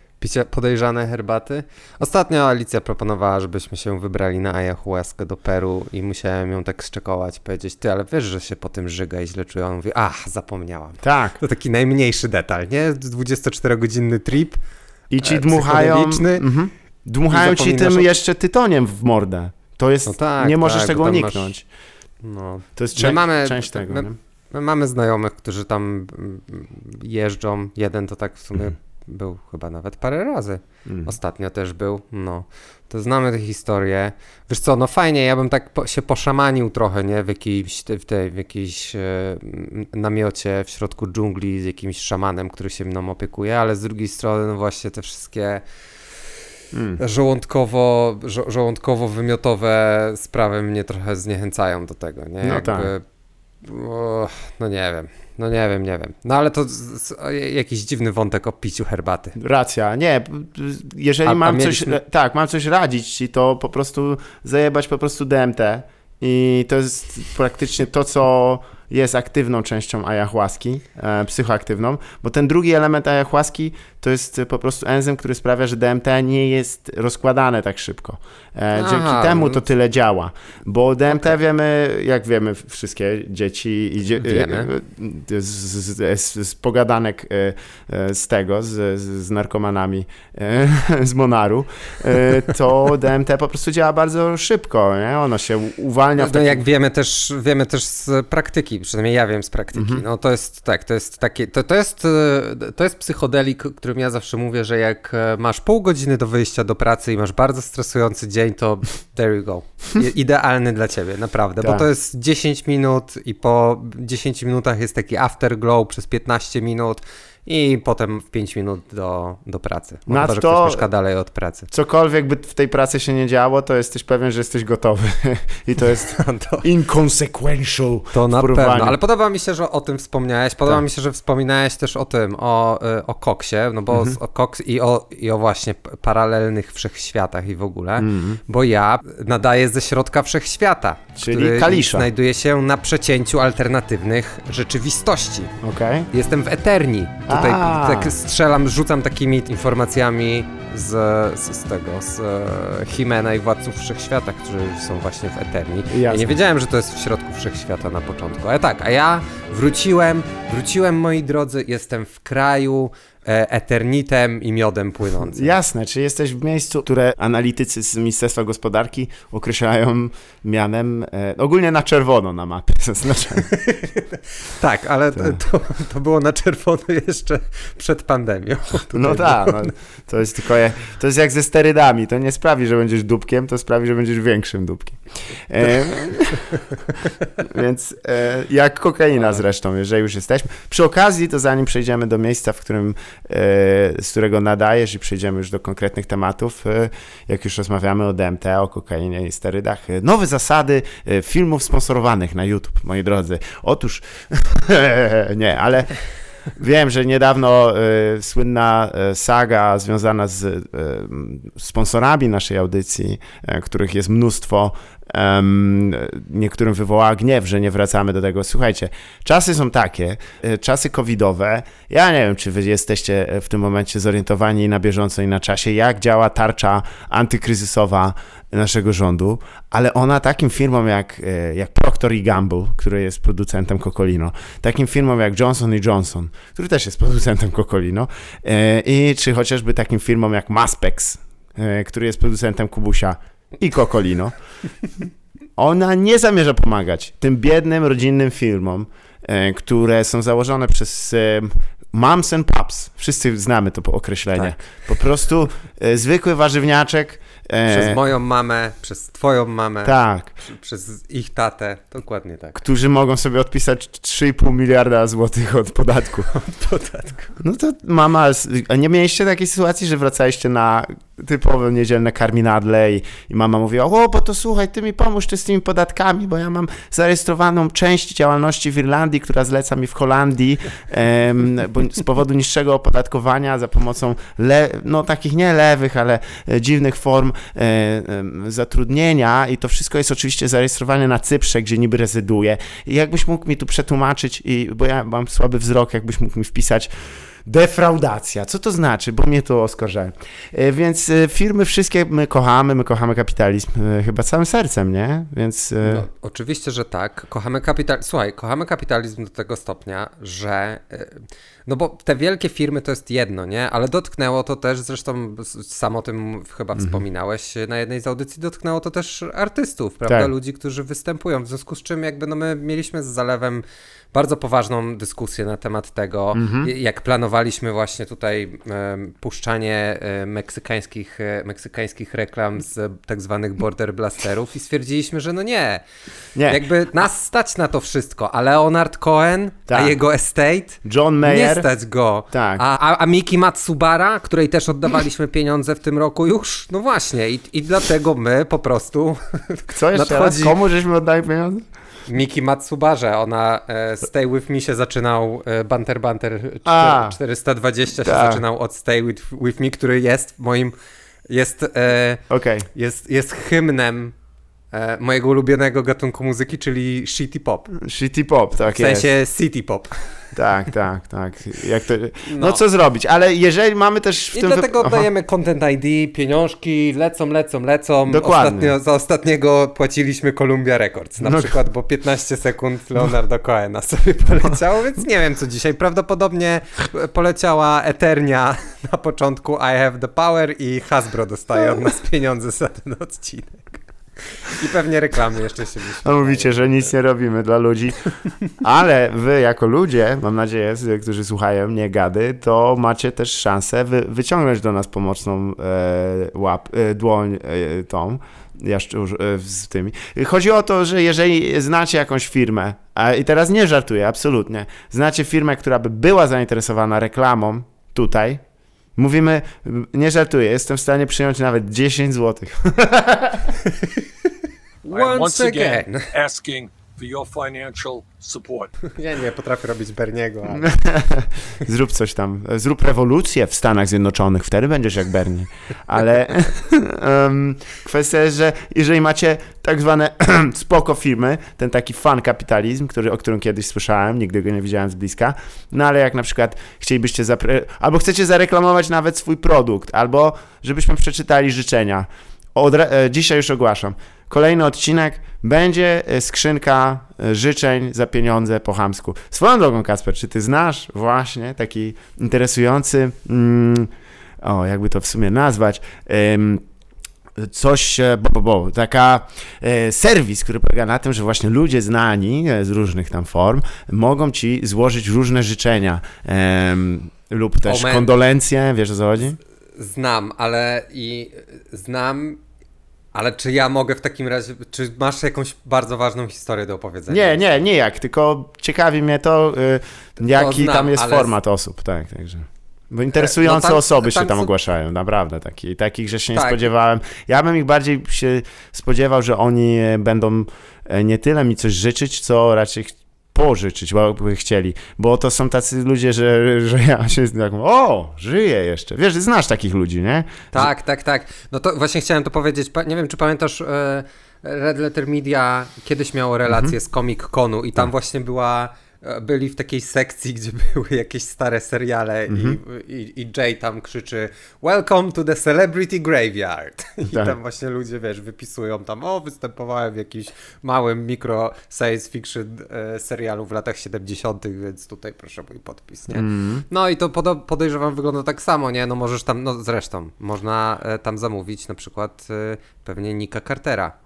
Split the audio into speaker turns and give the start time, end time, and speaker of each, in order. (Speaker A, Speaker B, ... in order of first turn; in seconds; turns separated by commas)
Speaker A: 0.2-14.6, Speaker B: 11.0-11.4, Speaker B: 15.1-21.6, Speaker A: 15.2-16.4, Speaker A: 17.3-18.2, Speaker A: 20.1-21.5, Speaker A: 22.2-45.6, Speaker B: 22.8-24.1, Speaker B: 30.9-31.1, Speaker B: 46.7-47.0, Speaker A: 47.0-53.0, Speaker B: 52.4-52.9, Speaker A: 53.6-59.4, Speaker B: 59.4-96.7, Speaker A: 61.2-62.0, Speaker A: 78.7-79.6, Speaker A: 84.2-84.7, Speaker A: 96.2-121.7, Speaker B: 99.7-100.0, Speaker B: 111.6-111.9, Speaker B: 120.1-120.9, Speaker B: 121.7-129.0, Speaker A: 126.1-126.7, Speaker A: 128.1-145.5, Speaker B: 133.9-134.2, Speaker B: 138.0-138.4, Speaker B: 141.2-142.1, Speaker B: 145.6-146.1, Speaker A: 146.1-165.6, Speaker B: 147.3-148.1, Speaker B: 155.9-156.4, Speaker B: 165.2-173.5, Speaker A: 173.5-179.7, Speaker B: 178.9-186.6, Speaker B: 187.4-206.0, Speaker B: 206.6-244.3, Speaker B: 245.6-258.0, Speaker A: 257.7-262.6, Speaker B: 259.8-260.3, Speaker B: 262.6-266.3, Speaker A: 266.3-267.3, Speaker B: 267.4-306.1, Speaker A: 305.8-335.8, Speaker B: 316.8-317.0, Speaker B: 326.3-326.7, Speaker B: 336.4-336.6, Speaker A: 336.5-350.6, Speaker B: 339.7-339.9, Speaker B: 340.8-341.7, Speaker B: 342.3-342.6, Speaker B: 349.7-351.7, Speaker A: 352.1-360.7, Speaker B: 356.6-357.2, Speaker B: 358.0-358.4, Speaker A: 361.3-362.2, Speaker B: 362.3-362.7, Speaker A: 362.7-364.1, Speaker A: 364.7-367.7, Speaker B: 367.8-369.1, Speaker A: 368.7-370.0, Speaker B: 370.3-375.1, Speaker A: 372.3-372.6, Speaker A: 374.3-396.8, Speaker B: 378.1-378.7, Speaker B: 381.2-381.5, Speaker B: 396.0-398.0, Speaker B: 398.6-418.4, Speaker B: 418.9-423.6, Speaker A: 424.8-426.1, Speaker C: 424.9-428.7, Speaker A: 428.9-430.7, Speaker B: 430.5-463.9, Speaker B: 464.4-466.6, Speaker B: 467.4-479.4, Speaker A: 477.6-478.1, Speaker A: 479.8-482.4, Speaker A: 483.1-487.4, Speaker B: 487.1-510.7, Speaker A: 490.2-491.3, Speaker A: 493.1-494.5, Speaker A: 496.3-496.6, Speaker A: 510.5-543.9, Speaker B: 516.5-516.7, Speaker B: 522.3-522.6, Speaker B: 527.0-527.4, Speaker B: 536.1-536.6